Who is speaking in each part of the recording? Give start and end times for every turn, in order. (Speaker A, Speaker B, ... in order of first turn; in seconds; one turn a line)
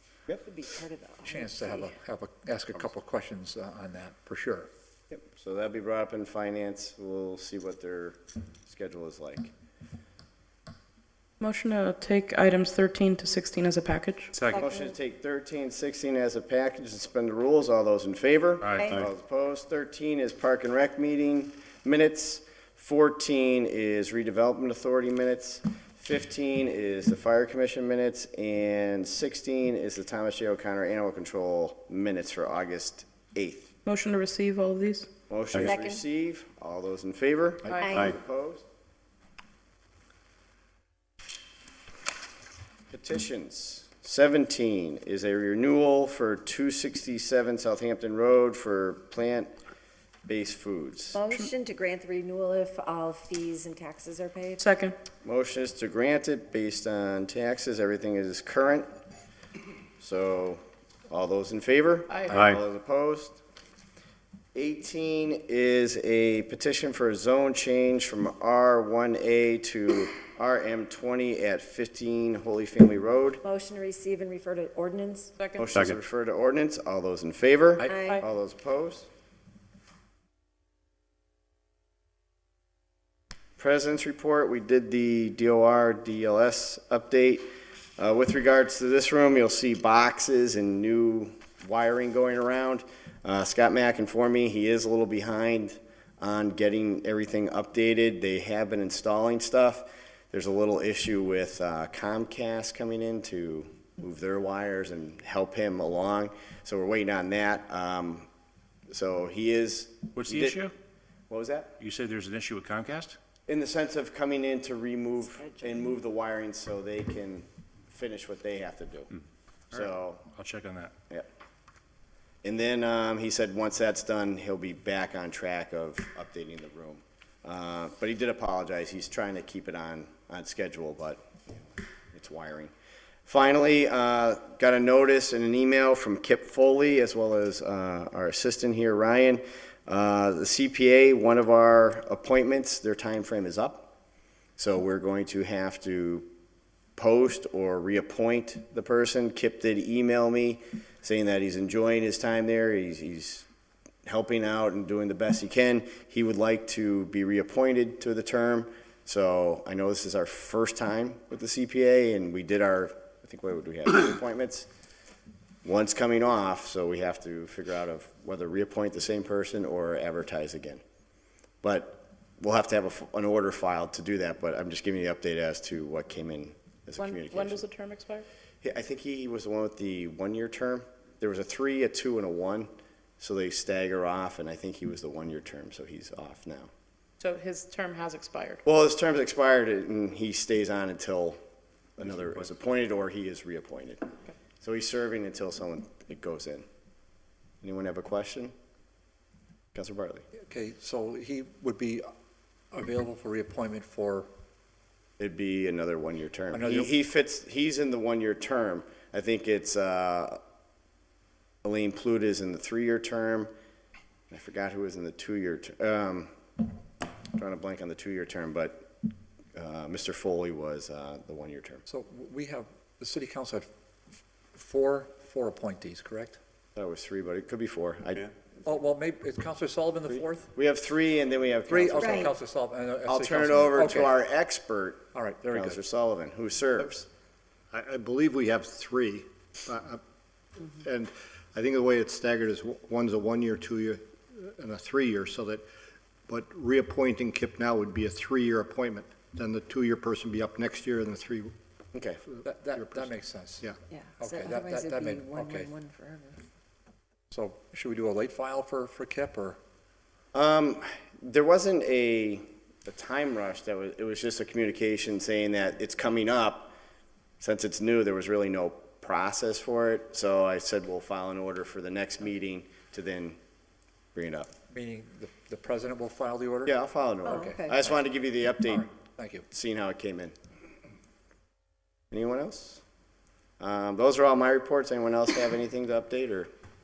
Speaker A: 0.4-1.5
Speaker B: 1.2-4.7
Speaker C: 5.1-9.5
Speaker D: 11.4-14.3
Speaker C: 14.6-33.7
Speaker E: 18.6-18.9
Speaker D: 33.9-35.1
Speaker C: 35.3-38.7
Speaker A: 35.7-36.0
Speaker D: 37.7-38.0
Speaker A: 37.8-38.1
Speaker C: 42.9-49.5
Speaker C: 50.3-51.2
Speaker A: 51.1-54.6
Speaker D: 54.6-55.0
Speaker C: 55.2-58.9
Speaker C: 60.0-63.4
Speaker D: 62.1-62.4
Speaker C: 64.5-73.4
Speaker A: 73.4-75.3
Speaker D: 75.4-75.8
Speaker C: 75.6-79.1
Speaker A: 77.8-78.2
Speaker C: 83.6-87.5
Speaker C: 88.0-108.3
Speaker C: 108.9-110.6
Speaker E: 110.1-110.8
Speaker C: 111.3-111.8
Speaker E: 111.8-113.2
Speaker C: 113.5-119.1
Speaker E: 119.7-120.9
Speaker C: 119.7-120.3
Speaker C: 122.4-132.7
Speaker C: 133.3-143.9
Speaker C: 144.6-146.3
Speaker C: 147.0-153.5
Speaker C: 154.1-164.7
Speaker C: 165.6-170.8
Speaker C: 171.6-177.6
Speaker D: 177.0-178.3
Speaker C: 178.6-186.7
Speaker D: 187.2-188.6
Speaker C: 188.7-191.4
Speaker C: 192.0-194.1
Speaker B: 192.1-192.4
Speaker C: 194.6-196.7
Speaker C: 197.6-198.5
Speaker C: 199.7-200.2
Speaker B: 200.4-202.1
Speaker B: 202.7-204.3
Speaker C: 205.2-210.4
Speaker B: 206.5-206.9
Speaker C: 211.6-213.5
Speaker C: 214.3-216.3
Speaker C: 217.3-218.9
Speaker C: 219.6-221.8
Speaker B: 221.9-223.7
Speaker B: 224.5-226.4
Speaker C: 226.8-228.3
Speaker B: 228.7-230.5
Speaker C: 230.6-232.3
Speaker B: 231.7-234.2
Speaker C: 233.1-237.1
Speaker B: 235.1-235.8
Speaker F: 237.7-240.0
Speaker F: 240.6-245.7
Speaker F: 246.3-251.5
Speaker C: 251.9-252.2
Speaker F: 252.3-253.1
Speaker B: 252.4-255.7
Speaker A: 253.9-256.4
Speaker B: 257.3-259.6
Speaker C: 260.3-266.8
Speaker C: 267.4-273.4
Speaker C: 274.1-274.5
Speaker B: 274.7-278.1
Speaker C: 276.7-278.9
Speaker A: 277.4-277.8
Speaker B: 278.6-279.5
Speaker C: 279.5-280.3
Speaker C: 282.1-282.8
Speaker C: 283.6-286.5